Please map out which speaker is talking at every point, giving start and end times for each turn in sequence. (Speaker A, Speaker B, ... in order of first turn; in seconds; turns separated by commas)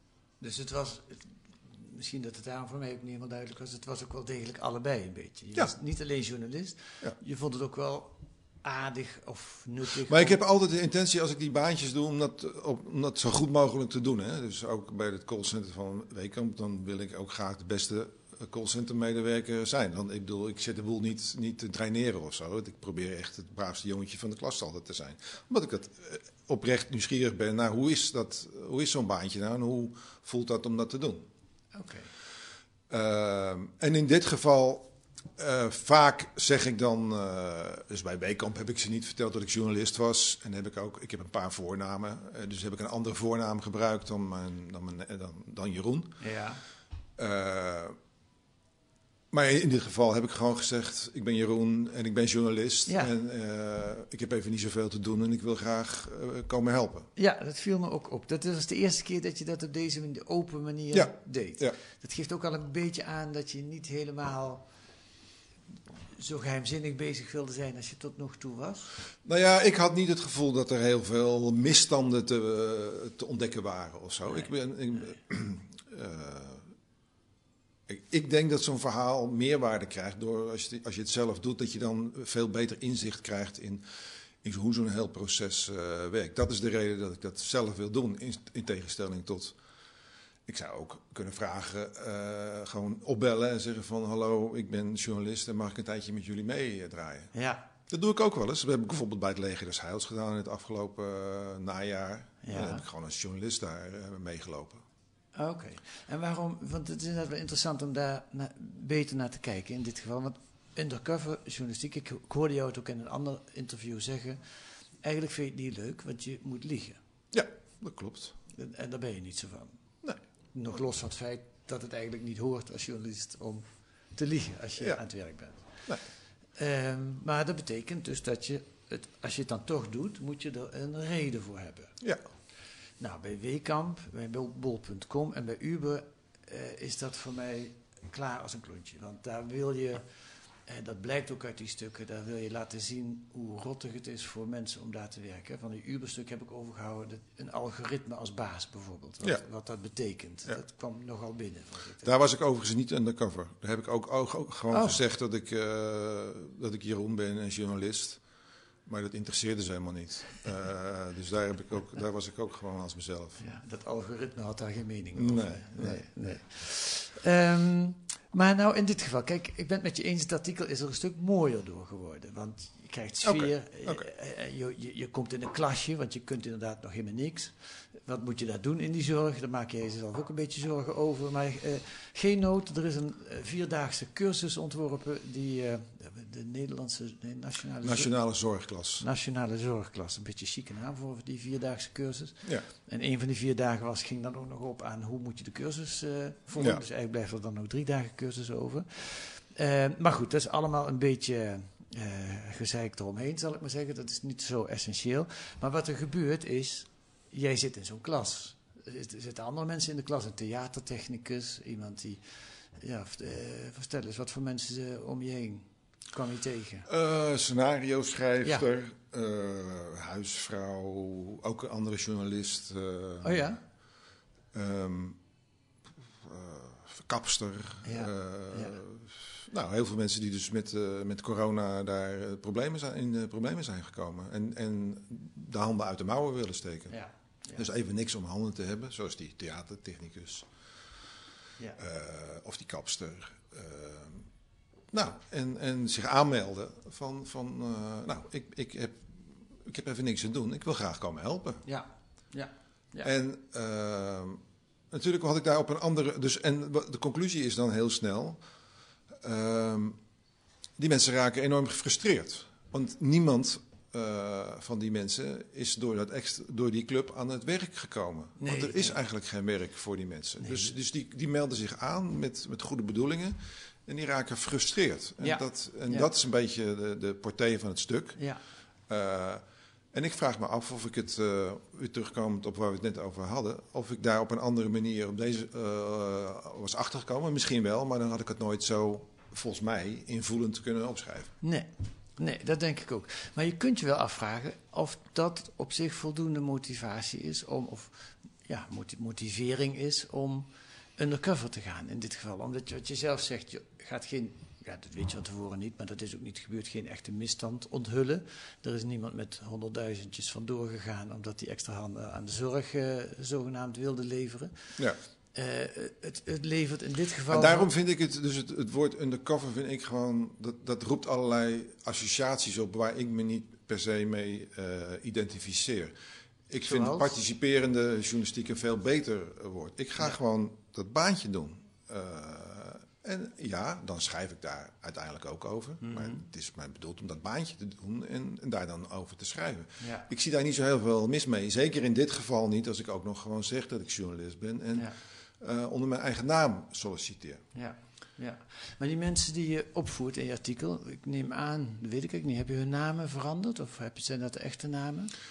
Speaker A: 0.4-10.4, Speaker B: 10.1-31.3, Speaker A: 31.7-32.1, Speaker B: 32.9-46.2, Speaker A: 46.2-46.6, Speaker B: 47.2-48.0, Speaker B: 49.3-57.1, Speaker A: 57.1-64.6, Speaker B: 60.9-61.8, Speaker A: 66.2-68.9, Speaker B: 69.2-76.7, Speaker B: 77.9-83.8, Speaker B: 84.4-89.5, Speaker B: 90.5-97.3, Speaker A: 97.3-97.7, Speaker B: 97.9-104.8, Speaker A: 102.4-102.8, Speaker A: 105.3-114.4, Speaker A: 115.0-117.0, Speaker B: 117.3-118.3, Speaker A: 118.5-119.8, Speaker A: 120.5-125.6, Speaker A: 126.6-131.9, Speaker A: 133.0-140.0, Speaker A: 140.7-152.1, Speaker B: 152.0-158.2, Speaker A: 154.7-155.0, Speaker B: 158.8-163.4, Speaker A: 163.4-177.5, Speaker B: 165.2-166.1, Speaker B: 173.2-174.0, Speaker A: 178.1-188.1, Speaker B: 187.8-189.1, Speaker A: 189.0-212.2, Speaker B: 196.6-196.8, Speaker A: 212.8-216.9, Speaker B: 216.9-223.5, Speaker A: 223.2-223.6, Speaker B: 224.5-225.2, Speaker B: 226.2-237.0, Speaker A: 227.8-228.8, Speaker A: 236.9-237.6, Speaker B: 237.5-240.5, Speaker B: 241.8-244.2, Speaker B: 244.9-249.1, Speaker B: 249.6-251.6, Speaker A: 251.7-253.1, Speaker B: 253.0-254.4, Speaker B: 254.9-258.4, Speaker B: 259.2-260.0, Speaker B: 260.8-278.2, Speaker A: 268.4-268.9, Speaker A: 270.4-270.7, Speaker A: 275.2-276.1, Speaker B: 278.9-279.4, Speaker B: 279.9-291.3, Speaker A: 291.4-314.5, Speaker A: 315.3-317.7, Speaker B: 317.3-325.9, Speaker B: 326.5-347.4, Speaker A: 326.6-327.1, Speaker A: 335.8-336.2, Speaker A: 339.8-340.1, Speaker A: 347.5-355.1